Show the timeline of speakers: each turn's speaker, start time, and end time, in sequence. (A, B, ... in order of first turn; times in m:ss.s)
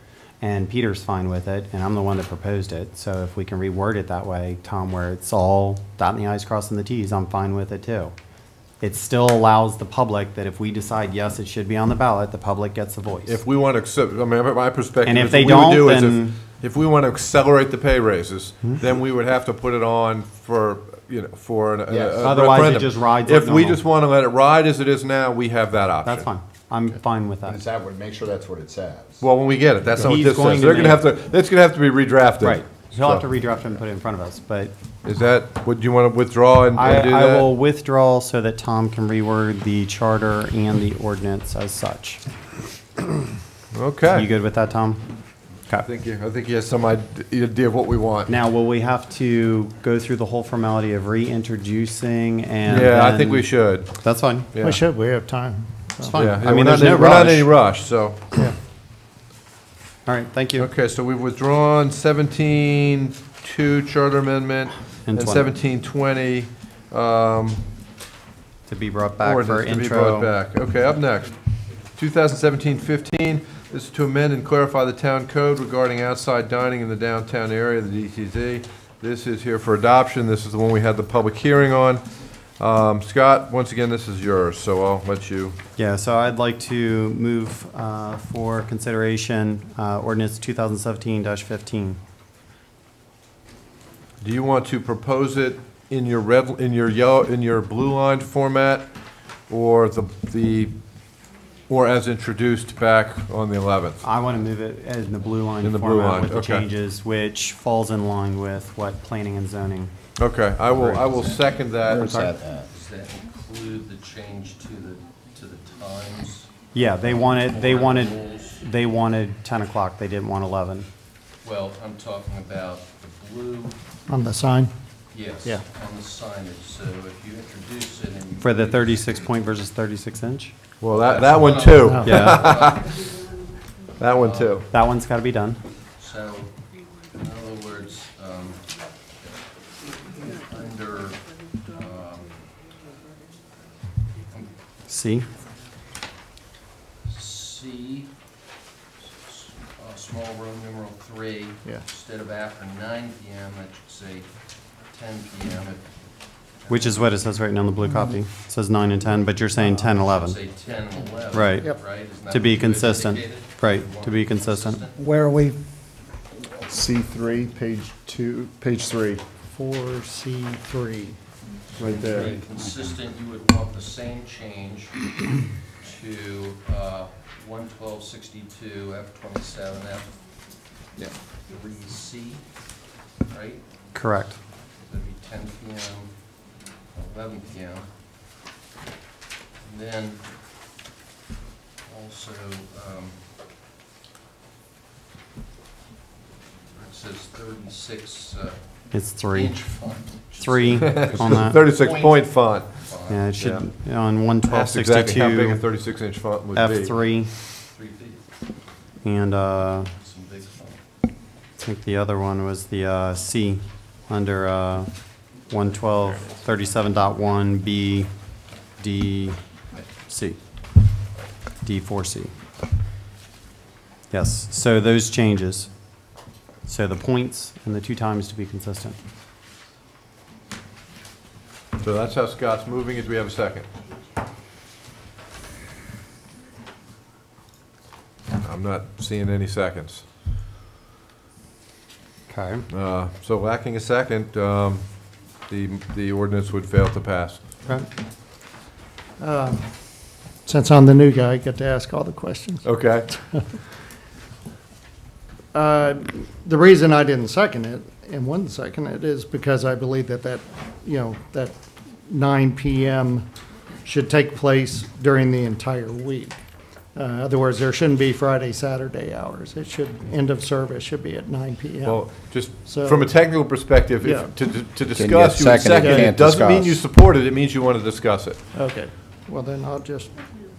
0:00.4-0:08.1 A
0:08.8-0:13.4 A
0:13.2-0:26.3 B
0:15.0-0:16.4 A
0:21.9-0:22.3 C
0:22.2-0:23.8 A
0:26.0-0:27.6 A
0:27.4-0:29.2 C
0:29.2-0:33.2 B
0:30.0-0:31.0 A
0:32.4-0:34.7 A
0:35.0-0:37.5 B
0:36.8-0:42.2 A
0:43.7-0:44.3 B
0:44.1-0:45.0 A
0:45.7-0:48.3 B
0:48.3-0:54.6 A
0:52.7-0:53.9 B
0:54.5-0:54.8 B
0:54.6-0:56.2 D
0:56.1-0:57.5 A
0:56.1-0:58.2 B
1:00.0-1:00.7 A
1:00.6-1:07.6 B
1:05.0-1:05.5 A
1:08.7-1:10.3 A
1:09.2-1:11.3 B
1:12.0-1:22.0 B
1:22.6-1:25.6 B
1:25.8-1:32.0 A
1:34.2-1:38.9 B
1:39.5-1:40.7 B
1:41.7-1:44.0 B
1:44.0-1:49.9 A
1:45.6-1:46.7 B
1:50.2-1:52.2 B
1:50.6-1:51.3 A
1:51.8-1:52.7 C
1:51.9-1:52.3 A
1:52.5-1:56.5 E
1:56.7-2:00.9 A
1:57.0-1:58.6 E
2:01.4-2:03.8 E
2:04.1-2:04.7 D
2:05.1-2:09.3 E
2:08.4-2:10.5 A
2:10.8-2:12.9 B
2:10.9-2:13.1 E
2:11.8-2:12.2 D
2:12.0-2:12.4 A
2:14.0-2:14.6 B
2:14.1-2:14.6 E
2:14.7-2:15.6 A
2:16.0-2:16.6 E
2:17.1-2:18.7 E
2:20.2-2:22.4 E
2:24.9-2:25.2 A
2:27.1-2:28.1 E
2:29.2-2:34.3 E
2:34.9-2:35.9 E
2:36.6-2:37.1 E
2:36.7-2:40.4 A
2:39.8-2:45.1 E
2:41.3-2:44.8 A
2:45.0-2:45.6 D
2:46.6-2:49.2 C
2:49.5-2:51.2 D
2:51.8-2:55.2 E
2:55.8-3:00.1 E
3:01.5-3:02.4 E
3:03.2-3:03.6 E
3:03.9-3:04.4 A
3:04.8-3:06.1 E
3:06.9-3:07.9 E
3:09.6-3:10.2 E
3:11.9-3:13.2 E
3:16.7-3:18.6 E
3:18.9-3:19.5 A
3:19.3-3:23.3 E
3:20.4-3:21.6 A
3:20.8-3:22.7 B
3:23.1-3:25.6 A
3:23.4-3:23.7 B
3:24.5-3:26.9 B
3:26.5-3:27.3 A
3:27.7-3:28.2 E
3:29.0-3:29.9 A
3:29.6-3:30.8 E
3:31.6-3:34.9 A
3:35.5-3:38.1 A
3:38.8-3:39.4 A
3:40.0-3:40.4 A
3:41.6-3:42.3 A
3:44.1-3:45.7 A
3:46.6-3:49.0 A
3:51.8-3:53.7 B
3:58.4-4:00.0 B
4:02.3-4:02.7 A
4:02.7-4:07.4 B
4:09.2-4:09.6 D
4:10.4-4:12.6 D
4:12.6-4:13.1 B
4:15.5-4:21.5 D
4:22.1-4:23.2 D
4:23.8-4:26.3 D
4:26.9-4:33.1 D
4:31.8-4:38.4 B
4:34.0-4:34.3 D
4:34.9-4:36.8 C
4:35.8-4:36.1 D
4:38.5-4:40.1 D